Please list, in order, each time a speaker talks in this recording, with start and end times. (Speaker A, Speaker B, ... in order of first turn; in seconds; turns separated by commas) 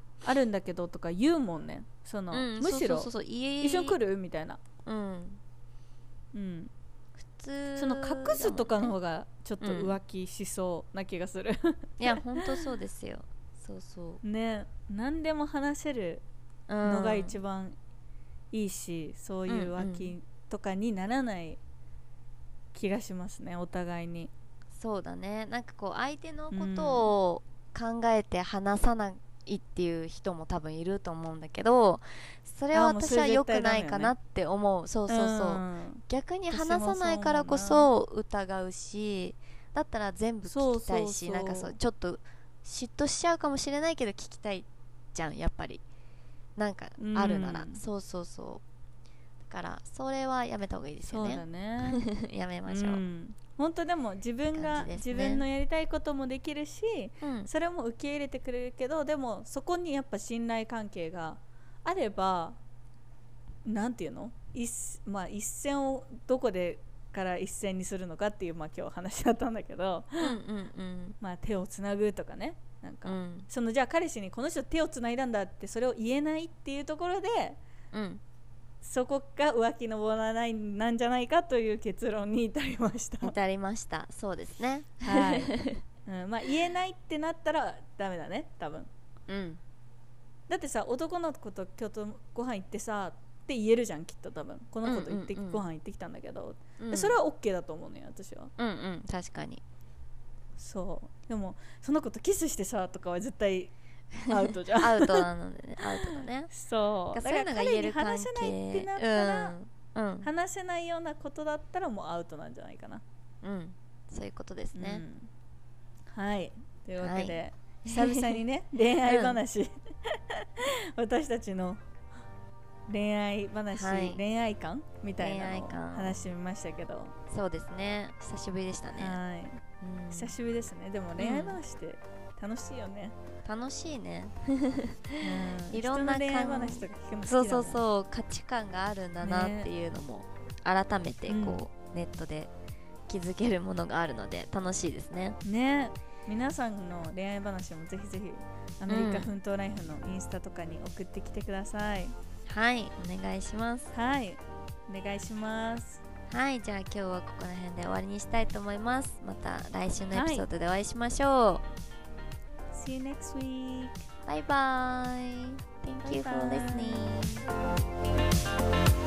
Speaker A: 0.2-3.1, Speaker B: 2.3-4.0, Speaker A: 3.6-4.6, Speaker B: 4.8-5.4, Speaker A: 6.3-6.7, Speaker B: 7.2-8.9, Speaker A: 7.8-12.6, Speaker B: 9.6-10.0, Speaker B: 12.0-14.2, Speaker A: 14.2-16.2, Speaker B: 16.7-17.4, Speaker A: 16.8-17.8, Speaker A: 18.5-21.6, Speaker B: 19.5-20.1, Speaker A: 22.7-24.3, Speaker B: 24.8-45.8, Speaker A: 26.5-27.1, Speaker A: 32.7-34.1, Speaker A: 35.1-37.9, Speaker A: 40.4-41.8, Speaker B: 46.5-48.6, Speaker A: 47.0-47.8, Speaker B: 49.5-53.0, Speaker A: 51.1-52.0, Speaker A: 52.7-62.6, Speaker B: 54.5-55.4, Speaker B: 57.2-57.5, Speaker A: 63.6-70.4, Speaker B: 70.2-71.2, Speaker A: 71.2-77.6, Speaker B: 73.0-73.5, Speaker B: 77.9-78.2, Speaker A: 78.8-83.3, Speaker B: 83.2-85.8, Speaker A: 85.0-88.9, Speaker B: 89.3-89.6, Speaker A: 90.5-98.5, Speaker B: 94.8-95.6, Speaker B: 96.8-97.2, Speaker B: 98.6-99.6, Speaker A: 100.6-103.7, Speaker A: 104.3-105.3, Speaker B: 104.3-106.5, Speaker A: 105.8-109.5, Speaker B: 107.1-110.3, Speaker A: 110.2-113.0, Speaker B: 113.4-115.0, Speaker A: 114.7-115.3, Speaker A: 116.1-121.8, Speaker B: 117.0-118.4, Speaker B: 119.1-119.4, Speaker A: 122.9-127.1, Speaker B: 123.7-124.2, Speaker B: 125.2-126.2, Speaker B: 127.3-129.2, Speaker A: 128.9-133.2, Speaker B: 129.8-130.3, Speaker B: 131.2-131.6, Speaker B: 133.4-142.5, Speaker A: 135.2-137.8, Speaker A: 139.2-139.7, Speaker A: 141.3-141.6, Speaker B: 143.1-145.4, Speaker A: 145.4-152.2, Speaker B: 148.9-149.3, Speaker B: 152.5-153.9, Speaker A: 153.9-156.0, Speaker B: 156.3-161.6, Speaker A: 160.1-160.5, Speaker A: 162.7-164.0, Speaker B: 164.2-167.5, Speaker A: 166.0-167.2